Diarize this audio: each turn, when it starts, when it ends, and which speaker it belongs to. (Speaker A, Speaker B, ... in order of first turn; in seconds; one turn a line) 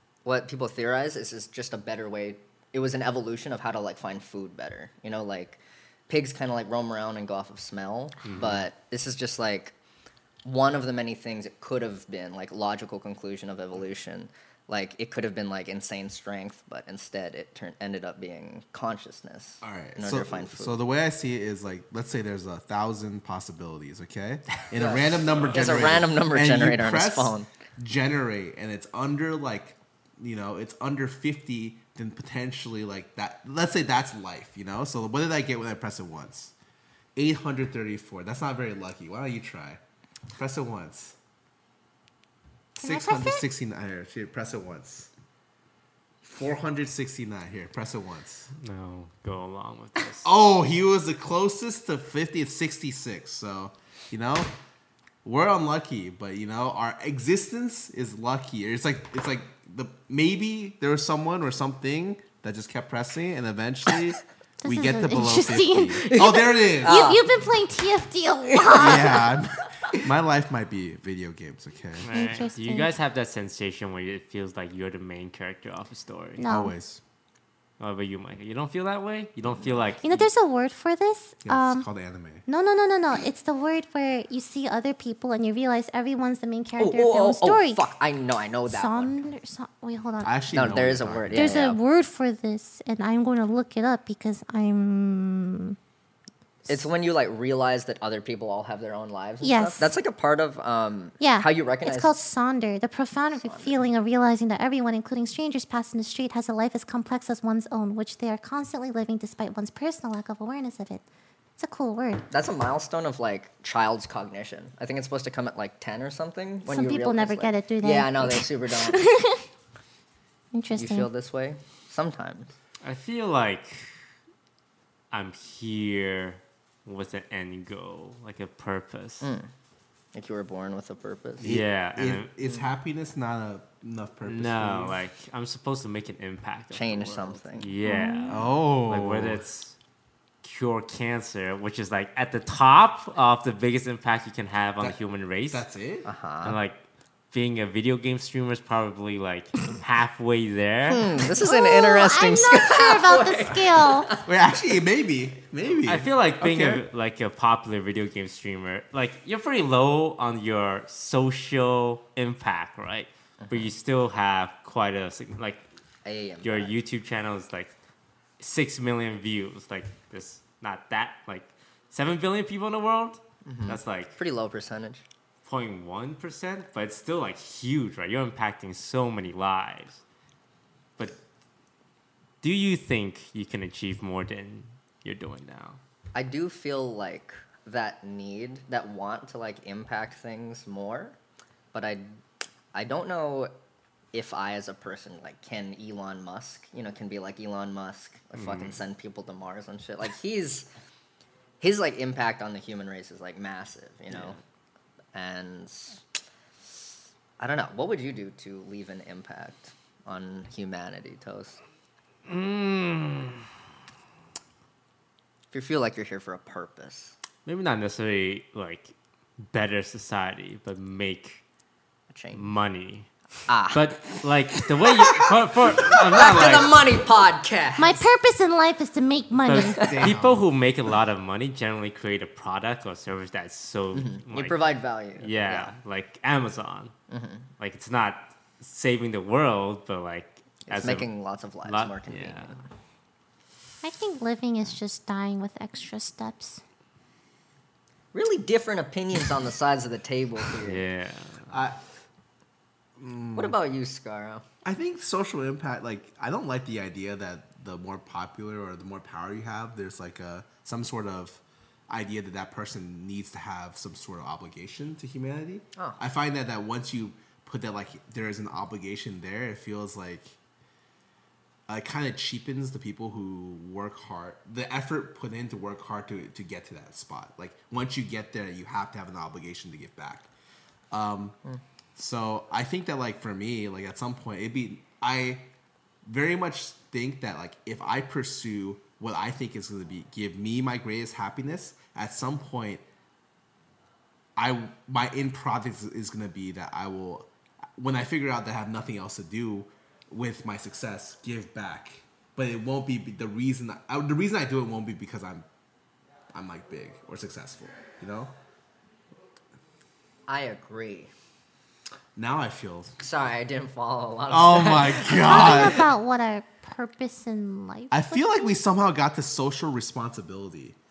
Speaker A: 0.2-9.7
Speaker B: 8.2-8.7
Speaker A: 10.4-20.8
Speaker C: 19.6-36.5
Speaker A: 24.7-27.5
Speaker C: 37.1-39.8
Speaker C: 40.3-41.1
Speaker D: 42.8-43.5
Speaker C: 42.8-45.1
Speaker C: 46.2-48.5
Speaker B: 48.6-50.3
Speaker C: 50.2-54.5
Speaker C: 55.2-67.2
Speaker D: 64.6-69.3
Speaker A: 66.0-67.2
Speaker A: 68.5-69.1
Speaker C: 68.7-72.1
Speaker B: 72.0-76.4
Speaker D: 72.1-72.9
Speaker D: 76.4-76.7
Speaker C: 76.5-77.0
Speaker B: 77.8-80.3
Speaker D: 80.0-81.9
Speaker C: 81.4-82.4
Speaker D: 82.5-87.8
Speaker A: 86.8-89.1
Speaker D: 88.7-90.4
Speaker C: 90.2-91.6
Speaker A: 90.5-91.8
Speaker D: 91.3-95.8
Speaker A: 96.7-102.1
Speaker D: 99.4-99.9
Speaker D: 101.2-111.0
Speaker A: 103.4-103.8
Speaker D: 111.6-112.2
Speaker A: 112.3-119.0
Speaker D: 116.7-119.4
Speaker D: 120.5-121.1
Speaker A: 120.7-122.5
Speaker B: 122.8-123.9
Speaker B: 125.1-129.3
Speaker A: 129.2-129.5
Speaker A: 130.1-131.5
Speaker B: 131.4-132.3
Speaker C: 131.4-135.0
Speaker B: 134.2-139.8
Speaker A: 136.7-137.7
Speaker D: 137.8-138.4
Speaker C: 138.3-139.5
Speaker B: 140.4-145.7
Speaker C: 145.5-146.1
Speaker A: 146.0-146.6
Speaker B: 146.4-146.8
Speaker B: 147.3-151.1
Speaker A: 150.8-154.2
Speaker D: 151.4-154.1
Speaker C: 154.2-156.8
Speaker B: 155.8-165.6
Speaker A: 163.4-163.7
Speaker A: 166.0-166.7
Speaker B: 166.4-167.7
Speaker B: 168.4-174.2
Speaker A: 173.4-175.0
Speaker B: 175.4-180.0
Speaker B: 182.4-185.8
Speaker A: 186.1-191.2
Speaker A: 191.7-192.1
Speaker A: 192.7-193.5
Speaker A: 194.1-200.7
Speaker B: 198.3-198.8
Speaker A: 201.6-204.4
Speaker B: 204.1-204.3
Speaker A: 205.1-206.0
Speaker A: 207.4-211.6
Speaker B: 212.2-213.4
Speaker A: 215.5-217.1
Speaker B: 217.4-221.4
Speaker A: 222.1-222.5
Speaker B: 222.3-223.1
Speaker A: 223.5-224.1
Speaker B: 223.7-226.9
Speaker C: 225.8-226.2
Speaker A: 225.8-228.1
Speaker D: 227.8-229.8
Speaker B: 229.5-234.6
Speaker A: 229.5-230.1
Speaker C: 229.7-230.4
Speaker A: 233.9-235.7
Speaker B: 235.2-236.9
Speaker A: 237.1-237.5
Speaker B: 237.6-241.1
Speaker A: 240.7-242.7
Speaker B: 241.6-242.5
Speaker D: 243.8-246.6
Speaker A: 248.1-250.8
Speaker B: 250.6-251.5
Speaker C: 251.5-251.8
Speaker C: 253.0-253.6
Speaker A: 253.3-254.4
Speaker C: 254.6-270.4
Speaker C: 271.7-280.3
Speaker C: 280.9-281.4
Speaker C: 281.9-285.5
Speaker C: 286.0-292.8
Speaker C: 294.4-305.4
Speaker C: 306.3-308.3
Speaker A: 310.3-311.1
Speaker C: 312.1-313.0
Speaker A: 313.0-315.8
Speaker C: 314.3-315.9
Speaker D: 315.2-318.6
Speaker C: 317.9-320.8